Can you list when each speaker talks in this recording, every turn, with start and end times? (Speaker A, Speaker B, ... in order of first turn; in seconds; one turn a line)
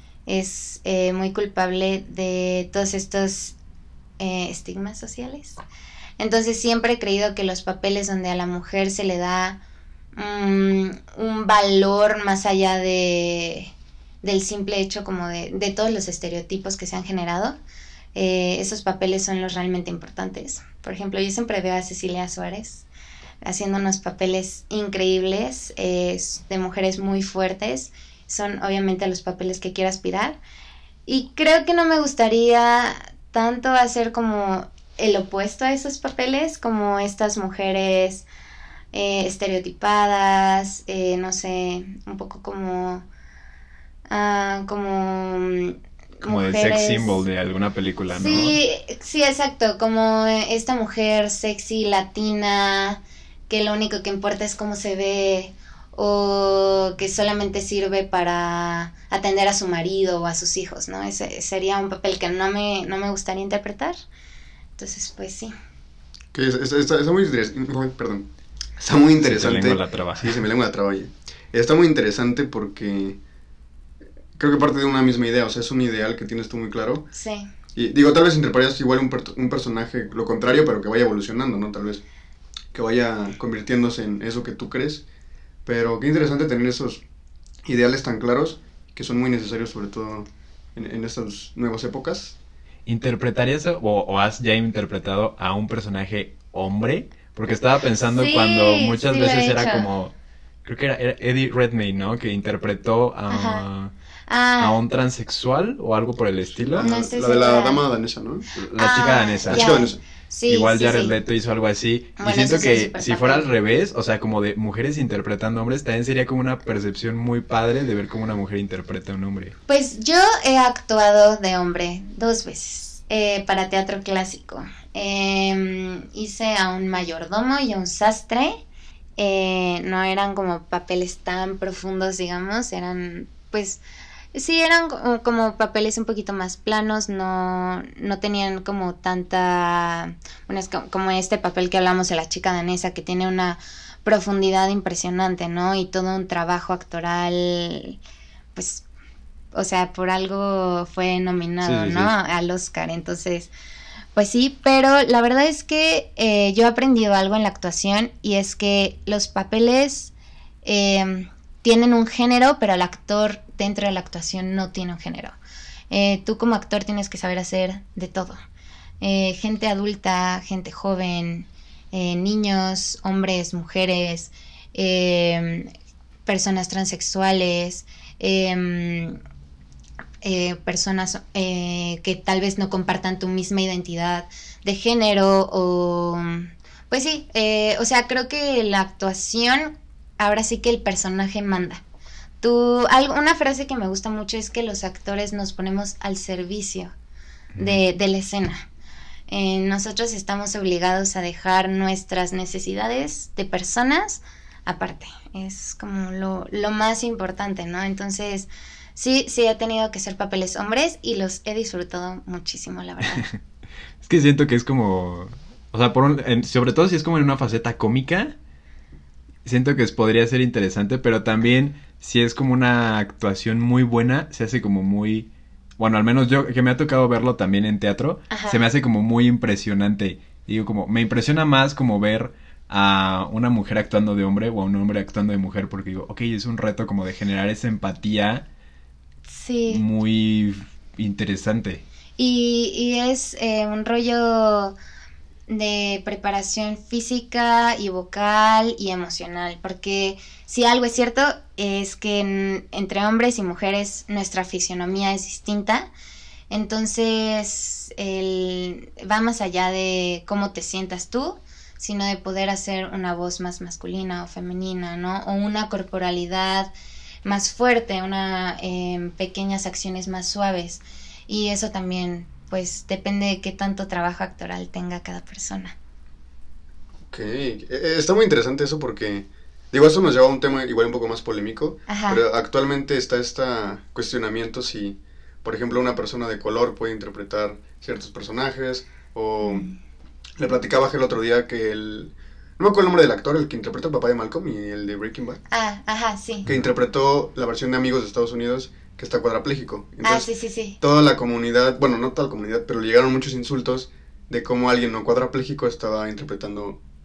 Speaker A: 0.3-3.6
Speaker A: 4.2-5.6
Speaker A: 6.2-9.6
Speaker A: 10.2-13.7
Speaker A: 14.2-17.6
Speaker A: 18.1-22.9
Speaker A: 23.4-30.4
Speaker A: 31.1-38.2
Speaker A: 38.9-43.1
Speaker A: 44.1-47.2
Speaker B: 46.2-48.6
Speaker A: 48.1-64.0
Speaker A: 64.8-65.5
Speaker C: 66.3-73.2
Speaker B: 69.2-70.4
Speaker C: 74.4-77.1
Speaker A: 77.1-77.5
Speaker C: 77.8-82.0
Speaker C: 82.7-85.0
Speaker C: 85.7-87.0
Speaker C: 87.7-92.4
Speaker B: 92.9-100.1
Speaker A: 98.1-99.9
Speaker B: 100.6-103.9
Speaker A: 103.3-103.7
Speaker A: 104.3-104.8
Speaker B: 104.6-106.9
Speaker C: 106.6-108.5
Speaker A: 106.8-107.8
Speaker B: 108.6-109.8
Speaker A: 108.8-111.2
Speaker C: 109.5-110.0
Speaker B: 110.5-119.5
Speaker A: 112.2-113.5
Speaker A: 119.7-128.6
Speaker A: 129.2-133.8
Speaker A: 134.3-148.0
Speaker A: 148.6-148.8
Speaker A: 149.5-153.5
Speaker B: 151.6-152.2
Speaker A: 154.2-160.1
Speaker A: 160.6-165.4
Speaker A: 165.9-168.4
Speaker A: 169.0-175.7
Speaker A: 176.3-179.2
Speaker A: 180.2-191.8
Speaker A: 192.4-196.9
Speaker B: 197.5-197.8
Speaker A: 197.6-198.7
Speaker A: 199.3-213.3
Speaker B: 214.0-218.3
Speaker B: 219.4-238.5
Speaker A: 228.3-228.6
Speaker A: 239.3-239.8
Speaker B: 239.7-241.8
Speaker A: 242.2-244.8
Speaker A: 245.5-255.9
Speaker A: 256.5-266.7
Speaker A: 267.2-275.8
Speaker C: 277.1-289.7
Speaker A: 281.9-282.2
Speaker A: 289.4-289.8
Speaker C: 290.4-295.4
Speaker A: 295.5-296.5
Speaker C: 296.5-300.3
Speaker A: 300.0-300.8
Speaker C: 300.8-306.8